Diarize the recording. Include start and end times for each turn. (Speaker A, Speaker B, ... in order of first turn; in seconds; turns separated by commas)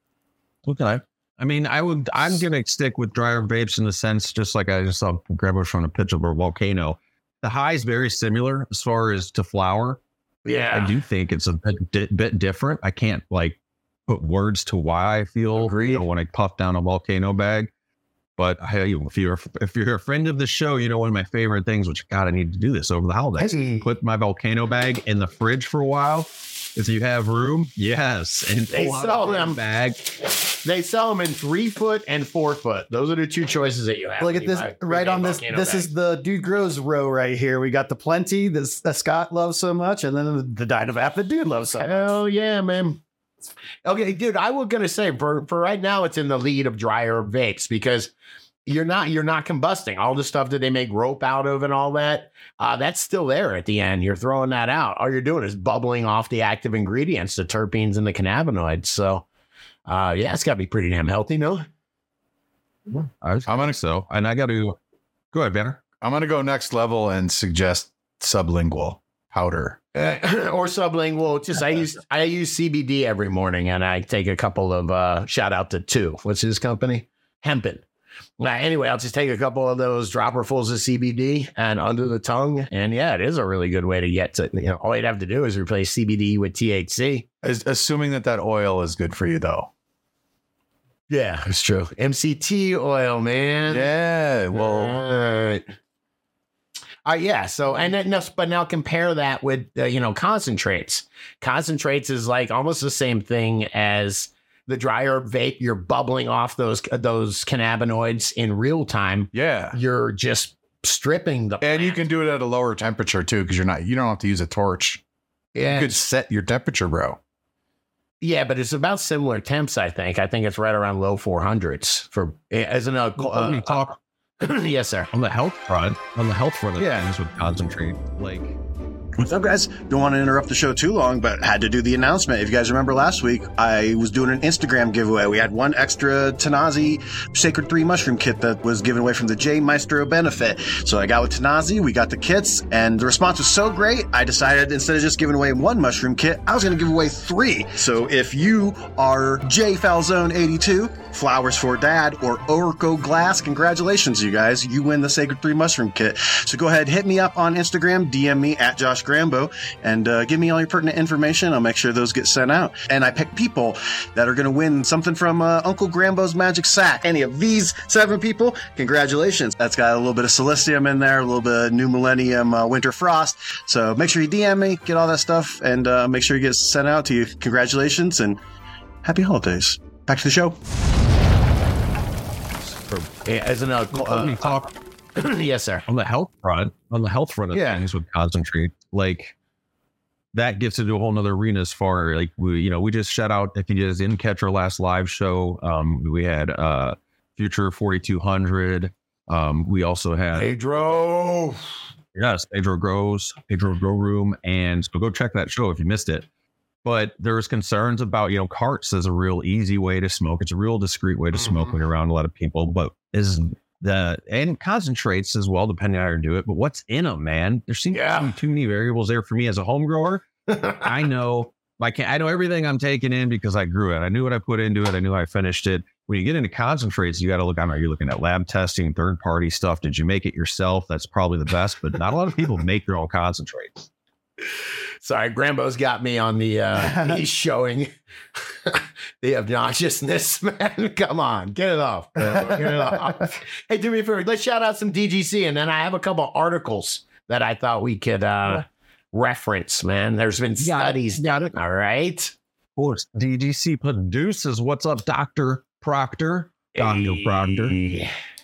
Speaker A: 0.7-10.0, Speaker B: 10.4-10.9, Speaker A: 10.7-17.7, Speaker B: 15.6-16.1, Speaker A: 18.4-30.1, Speaker C: 23.4-23.9, Speaker B: 28.7-29.6, Speaker B: 30.4-35.9, Speaker C: 34.2-42.1, Speaker B: 41.7-43.0, Speaker B: 43.9-48.1, Speaker B: 48.7-59.2, Speaker B: 59.9-61.6, Speaker A: 63.2-64.8, Speaker D: 63.5-63.8, Speaker A: 65.3-65.8, Speaker D: 66.0-69.8, Speaker B: 70.0-77.8, Speaker B: 78.4-87.2, Speaker D: 87.4-89.7, Speaker B: 91.1-93.9, Speaker D: 93.7-95.0, Speaker B: 94.5-95.7, Speaker B: 97.0-112.0, Speaker D: 109.3-109.8, Speaker D: 111.6-115.0, Speaker B: 115.5-116.0, Speaker D: 115.7-117.2, Speaker B: 118.2-123.9, Speaker A: 123.2-124.0, Speaker B: 124.4-125.1, Speaker A: 125.1-128.6, Speaker E: 129.2-178.4, Speaker E: 179.0-180.6, Speaker A: 182.8-183.1, Speaker B: 183.2-184.5, Speaker A: 183.9-184.7, Speaker B: 185.2-185.8, Speaker A: 185.9-189.3, Speaker B: 187.5-187.8, Speaker A: 190.3-200.5, Speaker B: 200.3-201.6, Speaker A: 202.2-206.2, Speaker A: 206.8-233.9, Speaker B: 211.4-211.7, Speaker B: 217.9-218.3, Speaker B: 220.5-220.8, Speaker B: 235.0-237.9, Speaker C: 236.8-237.2, Speaker B: 238.7-252.3, Speaker C: 242.3-242.8, Speaker A: 250.6-251.4, Speaker A: 252.8-257.8, Speaker B: 256.8-258.1